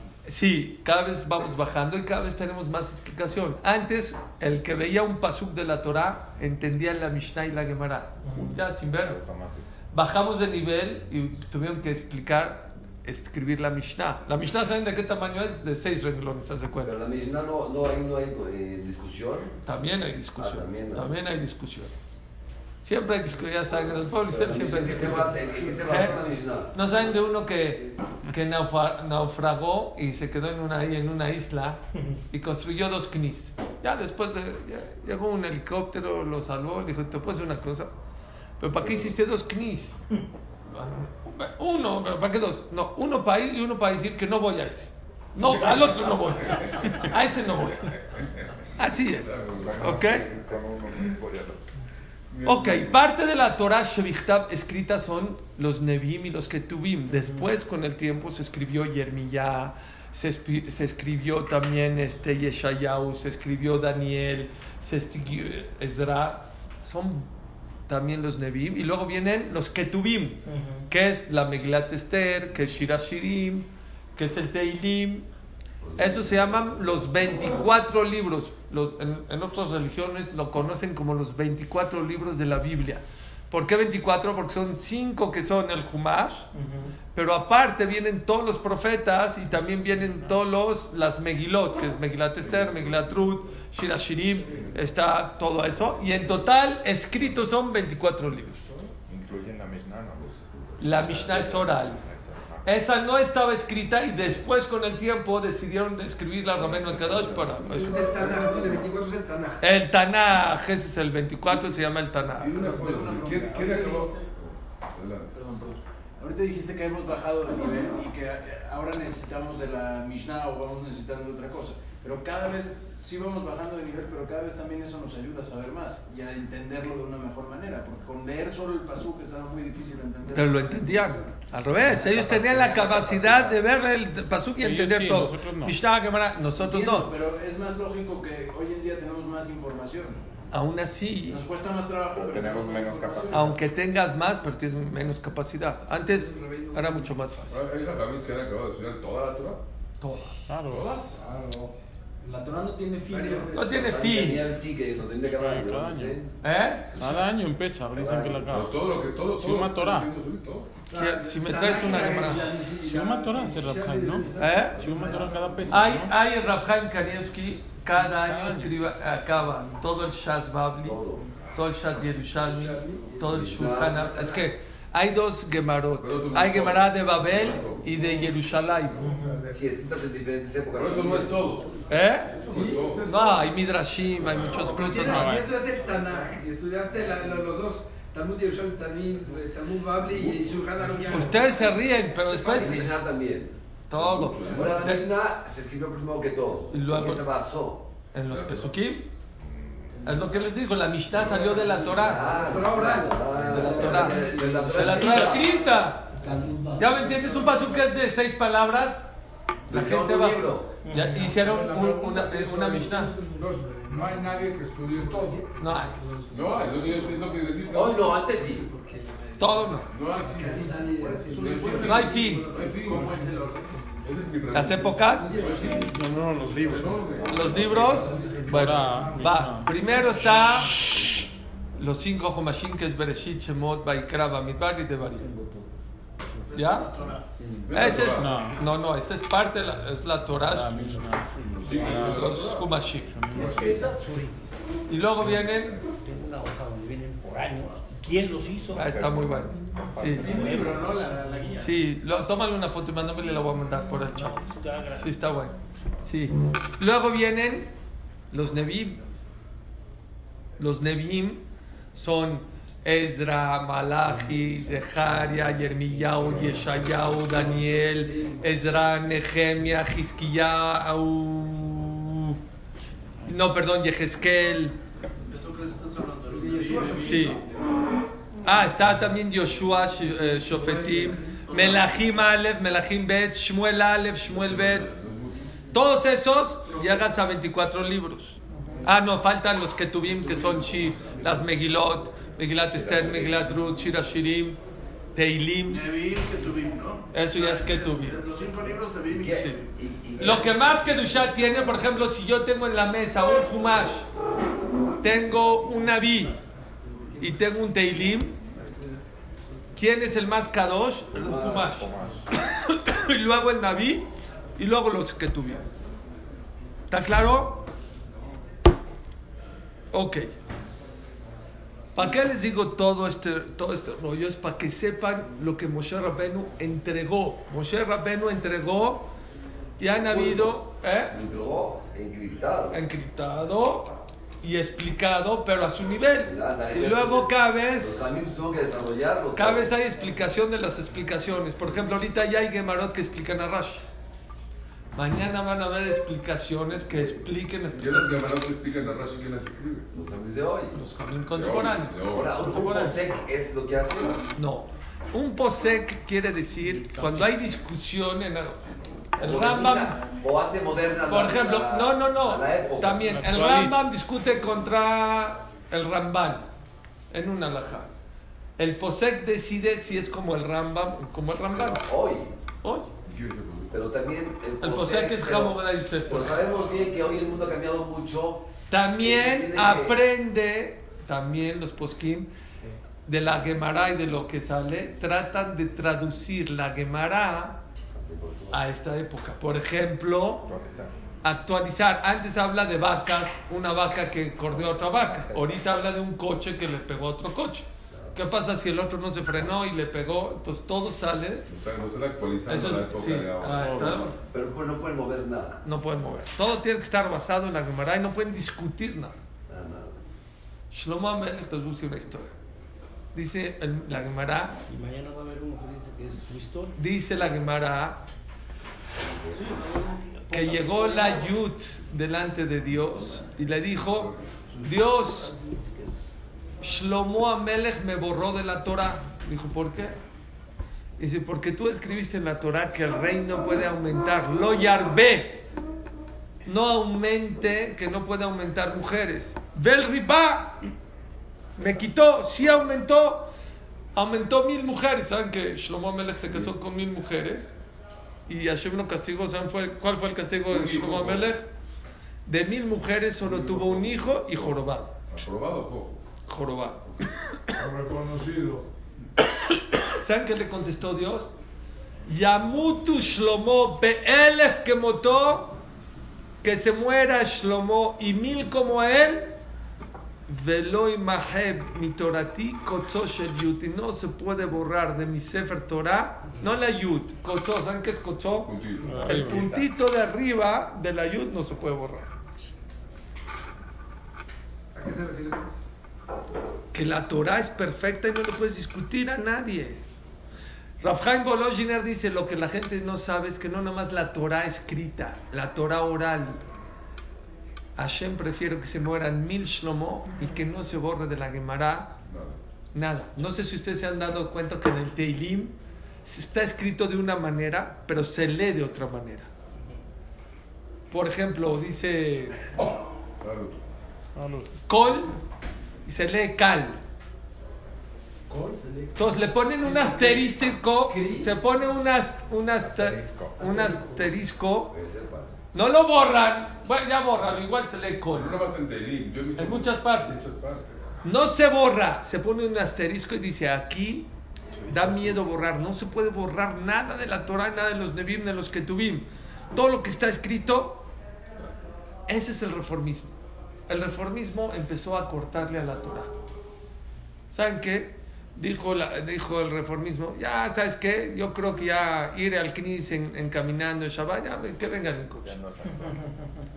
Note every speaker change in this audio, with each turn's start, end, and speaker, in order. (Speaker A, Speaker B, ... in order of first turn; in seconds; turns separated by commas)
Speaker A: 0.2-9.2, Speaker B: 8.9-9.7, Speaker A: 9.9-16.9, Speaker C: 16.8-19.5, Speaker A: 19.6-22.0, Speaker C: 20.4-21.2, Speaker A: 22.8-26.1, Speaker C: 24.3-26.7, Speaker A: 26.7-37.9, Speaker A: 38.6-40.0, Speaker D: 38.8-39.1, Speaker A: 40.7-48.0, Speaker A: 48.8-50.3, Speaker D: 48.9-50.2, Speaker B: 49.5-51.6, Speaker D: 52.3-53.0, Speaker A: 52.5-67.3, Speaker A: 67.9-75.3, Speaker E: 70.5-70.8, Speaker C: 75.8-77.5, Speaker A: 76.0-86.5, Speaker A: 87.1-98.6, Speaker D: 92.5-93.2, Speaker B: 99.0-102.7, Speaker A: 100.8-102.0, Speaker A: 102.6-108.0, Speaker B: 106.5-107.8, Speaker D: 106.6-108.4, Speaker F: 107.7-109.6, Speaker A: 109.6-112.9, Speaker D: 112.4-115.4, Speaker G: 112.5-114.3, Speaker G: 115.3-131.3, Speaker A: 130.3-137.1, Speaker B: 132.0-133.6, Speaker C: 132.3-132.8, Speaker H: 134.6-135.8, Speaker G: 136.6-140.2, Speaker A: 140.5-141.4, Speaker G: 141.3-143.6, Speaker B: 142.1-143.6, Speaker A: 143.3-147.6, Speaker F: 146.0-147.1, Speaker D: 147.5-149.6, Speaker A: 150.0-150.4, Speaker H: 150.5-150.9, Speaker D: 150.7-151.2, Speaker I: 151.1-151.7, Speaker E: 152.2-153.8, Speaker F: 153.1-153.9, Speaker A: 153.5-154.4, Speaker C: 153.8-156.3, Speaker H: 155.4-156.2, Speaker A: 156.4-156.9, Speaker C: 157.0-157.2, Speaker H: 157.0-160.1, Speaker C: 157.9-158.7, Speaker D: 158.5-160.7, Speaker F: 160.9-166.0, Speaker A: 160.9-162.6, Speaker H: 162.8-166.2, Speaker A: 164.4-164.8, Speaker A: 165.7-171.0, Speaker H: 168.0-168.9, Speaker C: 170.8-171.3, Speaker A: 171.6-179.0, Speaker F: 172.3-174.3, Speaker C: 173.3-174.4, Speaker D: 176.0-177.9, Speaker I: 179.0-179.6, Speaker C: 179.5-181.4, Speaker D: 180.7-183.4, Speaker A: 181.9-182.4, Speaker F: 182.4-183.5, Speaker A: 183.1-185.4, Speaker D: 184.1-184.9, Speaker F: 184.6-191.7, Speaker H: 185.0-185.5, Speaker A: 191.1-193.0, Speaker C: 192.3-193.6, Speaker A: 193.9-195.1, Speaker D: 193.9-194.9, Speaker F: 194.4-194.8, Speaker C: 194.5-197.9, Speaker A: 196.7-197.3, Speaker A: 198.1-199.1, Speaker D: 198.3-198.7, Speaker D: 199.5-199.9, Speaker A: 200.0-202.5, Speaker C: 201.3-205.7, Speaker E: 201.4-203.0, Speaker F: 202.4-203.3, Speaker D: 203.3-204.7, Speaker A: 203.5-206.2, Speaker E: 204.5-205.1, Speaker E: 206.1-207.8, Speaker A: 206.8-209.0, Speaker C: 209.7-210.8, Speaker A: 209.7-213.1, Speaker E: 210.8-214.3, Speaker I: 213.4-215.5, Speaker F: 214.8-215.4, Speaker A: 215.6-216.0, Speaker D: 216.3-218.0, Speaker F: 217.1-223.4, Speaker C: 217.7-218.7, Speaker A: 219.4-219.9, Speaker D: 219.9-223.1, Speaker G: 221.2-223.6, Speaker A: 221.8-222.5, Speaker E: 223.0-223.6, Speaker D: 224.0-228.3, Speaker A: 224.5-225.3, Speaker F: 224.9-228.7, Speaker H: 225.9-226.9, Speaker B: 227.0-228.1, Speaker A: 227.3-231.1, Speaker E: 228.1-228.4, Speaker I: 228.1-229.4, Speaker H: 228.5-230.1, Speaker A: 231.8-235.3, Speaker E: 235.3-235.7, Speaker J: 236.4-237.3, Speaker A: 236.5-236.9, Speaker D: 237.6-238.5, Speaker A: 237.7-240.8, Speaker H: 238.0-238.6, Speaker H: 240.5-242.5, Speaker D: 241.5-242.8, Speaker A: 241.9-243.1, Speaker H: 243.1-243.7, Speaker D: 243.3-243.9, Speaker E: 243.3-244.3, Speaker G: 243.5-243.9, Speaker A: 244.9-245.8, Speaker E: 245.9-248.8, Speaker A: 248.7-250.6, Speaker B: 248.8-250.9, Speaker G: 250.1-251.8, Speaker E: 250.4-250.8, Speaker A: 251.6-257.7, Speaker E: 254.2-255.3, Speaker A: 258.3-259.0, Speaker A: 260.6-261.4, Speaker A: 261.9-272.4, Speaker F: 266.3-268.5, Speaker A: 273.3-274.8, Speaker J: 275.3-277.4, Speaker F: 276.3-277.5, Speaker A: 277.0-277.4, Speaker A: 278.4-284.9, Speaker F: 280.4-281.4, Speaker J: 281.5-282.2, Speaker D: 284.4-285.4, Speaker A: 285.7-294.6, Speaker J: 286.7-287.1, Speaker C: 292.7-293.5, Speaker A: 295.1-295.8, Speaker J: 295.7-300.4, Speaker A: 297.1-298.2, Speaker C: 299.1-301.1, Speaker A: 299.2-299.6, Speaker A: 300.2-304.1, Speaker A: 305.0-306.4, Speaker A: 307.2-308.4, Speaker A: 309.8-315.7, Speaker C: 311.1-311.9, Speaker B: 311.4-312.2, Speaker A: 316.9-317.7, Speaker A: 319.9-320.3, Speaker A: 321.9-329.1, Speaker A: 329.8-331.1, Speaker C: 330.1-330.6, Speaker C: 331.1-332.8, Speaker A: 332.7-338.0, Speaker C: 336.2-339.7, Speaker A: 339.4-343.9, Speaker A: 344.9-348.5, Speaker C: 346.9-347.3, Speaker D: 347.8-349.9, Speaker C: 349.9-350.8, Speaker A: 350.7-353.1, Speaker D: 351.3-352.5, Speaker C: 352.0-354.2, Speaker A: 354.4-358.6, Speaker H: 356.9-357.3, Speaker C: 359.2-363.2, Speaker A: 359.2-360.0, Speaker A: 361.1-366.5, Speaker H: 363.0-363.9, Speaker A: 367.1-367.9, Speaker A: 368.6-371.9, Speaker C: 371.5-372.3, Speaker A: 372.6-372.9, Speaker D: 373.1-373.8, Speaker C: 373.7-380.0, Speaker A: 374.6-376.5, Speaker D: 376.7-377.1, Speaker A: 378.7-382.3, Speaker A: 383.1-387.6, Speaker C: 387.9-388.6, Speaker A: 388.5-390.5, Speaker B: 390.4-390.9, Speaker A: 391.2-401.5, Speaker B: 394.5-395.7, Speaker C: 397.9-398.2, Speaker D: 401.5-403.9, Speaker A: 402.5-404.2, Speaker H: 403.6-404.0, Speaker C: 404.3-405.6, Speaker A: 405.6-409.2, Speaker C: 409.5-410.0, Speaker A: 410.7-412.3, Speaker A: 413.1-414.6, Speaker E: 414.7-416.7, Speaker A: 416.8-418.0, Speaker C: 419.0-419.5, Speaker E: 419.3-421.3, Speaker A: 420.3-425.4, Speaker D: 423.7-424.3, Speaker E: 424.6-425.9, Speaker A: 426.6-430.0, Speaker A: 431.0-435.5, Speaker A: 436.5-440.7, Speaker A: 441.6-443.3, Speaker A: 443.9-447.5, Speaker A: 448.3-451.5, Speaker D: 450.5-451.4, Speaker A: 452.3-454.9, Speaker D: 453.2-454.4, Speaker D: 455.1-456.0, Speaker A: 456.3-456.8, Speaker I: 457.6-458.6, Speaker A: 459.9-461.3, Speaker A: 462.1-465.6, Speaker A: 466.4-469.4, Speaker A: 470.3-478.5, Speaker D: 478.4-479.4, Speaker H: 478.9-479.6, Speaker A: 479.1-482.1, Speaker F: 484.7-485.6, Speaker A: 486.7-489.8, Speaker A: 490.8-496.4, Speaker A: 497.8-502.0, Speaker D: 502.1-502.4, Speaker A: 502.7-509.3, Speaker A: 510.9-512.5, Speaker D: 513.2-513.6, Speaker H: 514.1-514.5, Speaker A: 514.7-515.2, Speaker A: 515.9-516.8, Speaker E: 518.3-519.0, Speaker A: 519.0-524.7, Speaker F: 519.7-520.2, Speaker F: 520.8-521.3, Speaker B: 522.6-523.4, Speaker E: 523.4-524.1, Speaker C: 524.7-525.3, Speaker A: 525.5-528.4, Speaker D: 528.1-531.0, Speaker A: 529.4-530.2, Speaker A: 531.0-534.1, Speaker B: 534.5-535.1, Speaker A: 534.7-540.9, Speaker A: 542.1-543.1, Speaker A: 543.7-546.1, Speaker A: 547.3-555.4, Speaker B: 555.2-556.1